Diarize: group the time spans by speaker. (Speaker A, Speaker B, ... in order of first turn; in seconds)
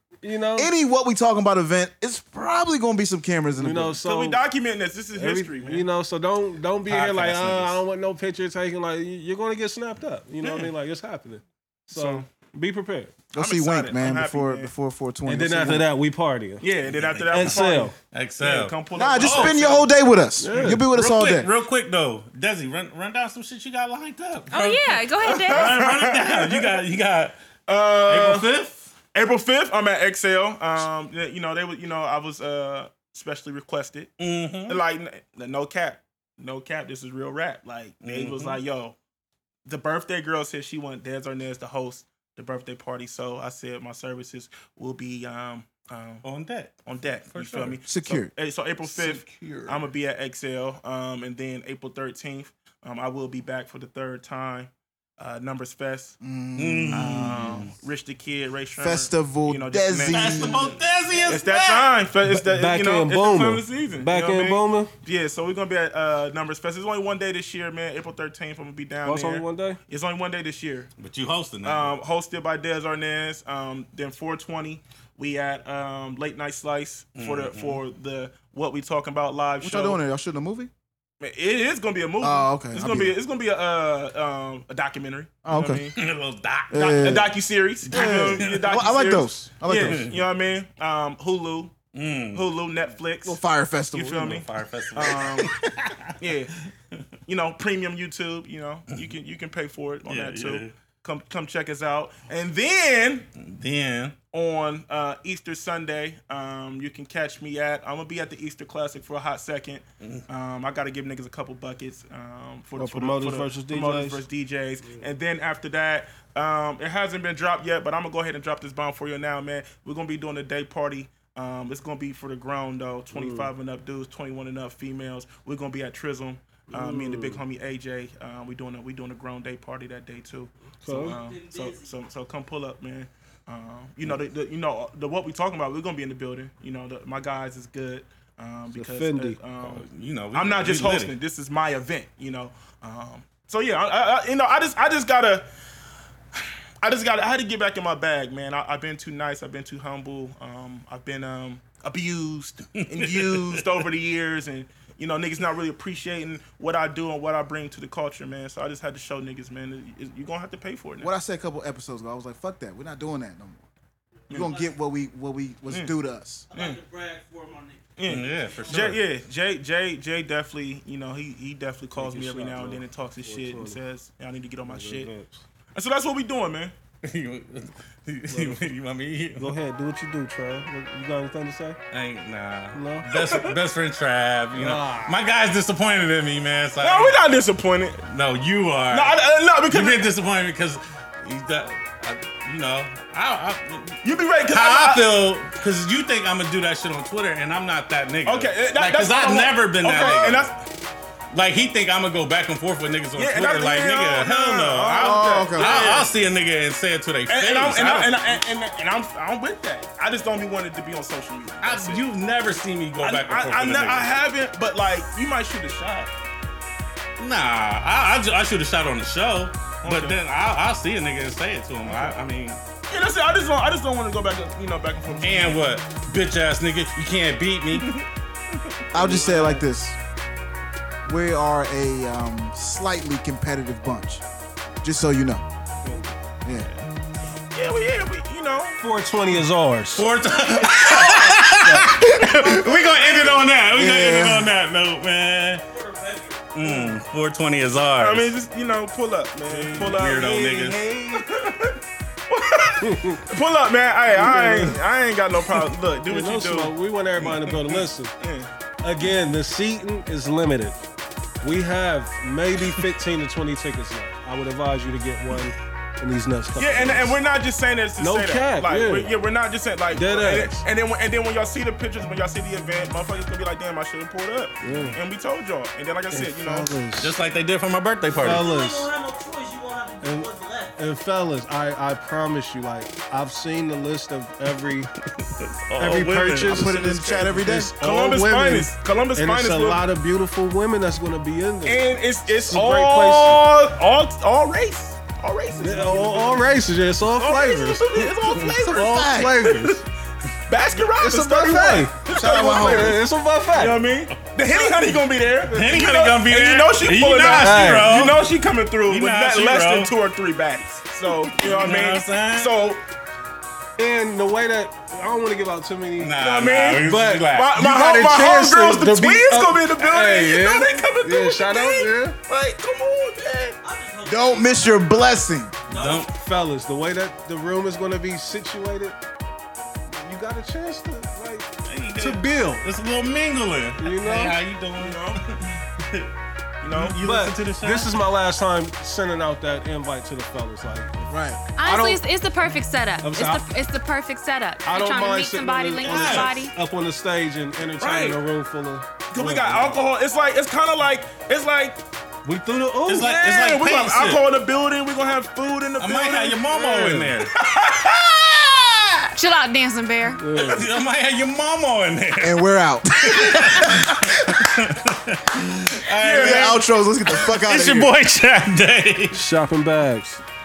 Speaker A: 0.2-0.7, 3.6-4.4, 5.1-13.1, 15.2-16.6, 17.3-17.9, 20.4-20.9, 62.3-64.9, 69.0-69.8, 112.8-114.2, 123.1-123.5, 126.7-127.4, 130.8-131.2, 138.7-139.4, 171.9-173.8, 174.6-175.4, 178.3-178.7, 179.4-181.8, 182.7-183.1, 184.6-185.2, 235.8-236.2, 238.8-240.1, 249.4-250.0, 252.8-253.2, 254.1-254.8, 256.1-258.1, 258.8-260.8, 261.4-267.2, 268.0-269.1, 269.9-270.6, 274.6-275.0, 276.1-277.1, 278.2-278.9, 280.0-284.9, 285.8-293.4, 295.6-299.8, 301.1-301.9, 302.5-303.8, 307.4-308.0, 313.8-316.1, 316.8-322.2, 326.1-329.0, 329.9-332.6, 333.8-334.4, 337.0-342.0, 343.0-343.5, 344.6-349.8, 352.2-353.4, 360.1-360.7, 369.1-370.2
Speaker B: 0.6-4.0, 13.3-15.9, 18.9-21.5, 47.9-48.3, 56.2-57.7, 58.8-60.7, 79.6-80.7, 82.2-83.2, 85.4-85.9, 86.7-90.0, 93.2-94.4, 161.0-163.7, 164.3-166.5, 205.0-206.0, 228.9-230.0, 231.0-234.2, 234.8-235.4, 241.0-242.6, 243.7-244.5, 286.4-287.7, 298.3-299.6, 301.0-303.0, 324.0-325.5, 341.1-341.4, 362.2-364.4, 366.0-367.9
Speaker C: 4.0-5.9, 11.9-12.3, 13.3-14.7, 16.6-19.9, 25.4-26.8, 27.7-28.5, 29.1-34.1, 34.7-39.0, 39.6-46.2, 46.9-56.2, 56.9-70.9, 71.6-80.0, 81.2-86.0, 86.7-91.7, 92.3-93.4, 93.9-95.5, 96.2-96.5, 97.3-103.3, 104.3-145.5, 146.8-161.1, 165.7-165.9, 166.5-166.8, 168.0-175.1, 175.7-176.7, 183.1-183.6, 186.8-188.0, 188.9-190.1, 194.0-195.1, 198.2-200.6, 203.1-206.2, 207.3-212.0, 213.0-216.1, 219.8-220.2, 221.8-222.1, 222.9-225.6, 227.7-228.1, 228.9-229.6, 237.5-238.8, 240.7-241.4, 242.5-243.5, 246.6-246.9, 248.0-251.8, 252.3-256.8, 257.4-258.5, 266.6-276.7, 287.8-289.8, 291.6-299.2, 300.5-303.0, 303.5-312.8, 316.2-323.6, 334.8-335.4, 336.6-337.0, 347.8-348.2, 349.1-351.8, 353.1-358.5, 366.0-366.6
Speaker D: 6.8-7.8, 16.9-17.6, 18.1-19.6, 20.6-27.4, 28.1-28.9, 34.2-34.8, 38.0-38.6, 46.2-47.8, 48.8-49.9, 56.5-57.7, 60.1-61.9, 71.0-71.9, 77.2-77.8, 86.0-87.1, 87.9-89.0, 89.7-90.2, 91.9-92.5, 94.2-96.1, 100.0-100.7, 103.4-104.2, 139.6-141.1, 152.8-153.8, 168.1-169.0, 177.0-179.5, 181.9-187.2, 188.1-200.5, 201.3-208.4, 211.6-214.1, 217.2-222.6, 225.2-227.9, 236.5-236.9, 240.0-245.6, 246.5-248.3, 249.7-250.8, 277.0-278.5, 285.2-287.3, 305.5-308.3, 308.9-309.9, 311.3-312.5, 316.0-317.6, 325.7-326.1, 331.6-335.1, 335.8-336.1, 336.7-337.9, 345.8-346.4, 352.9-354.2, 355.8-357.3, 360.4-369.2
Speaker E: 24.5-25.7, 341.5-346.5, 359.1-360.2
Speaker F: 131.0-132.0, 164.2-164.8, 166.5-168.9, 245.6-246.5, 278.2-280.8, 323.6-326.1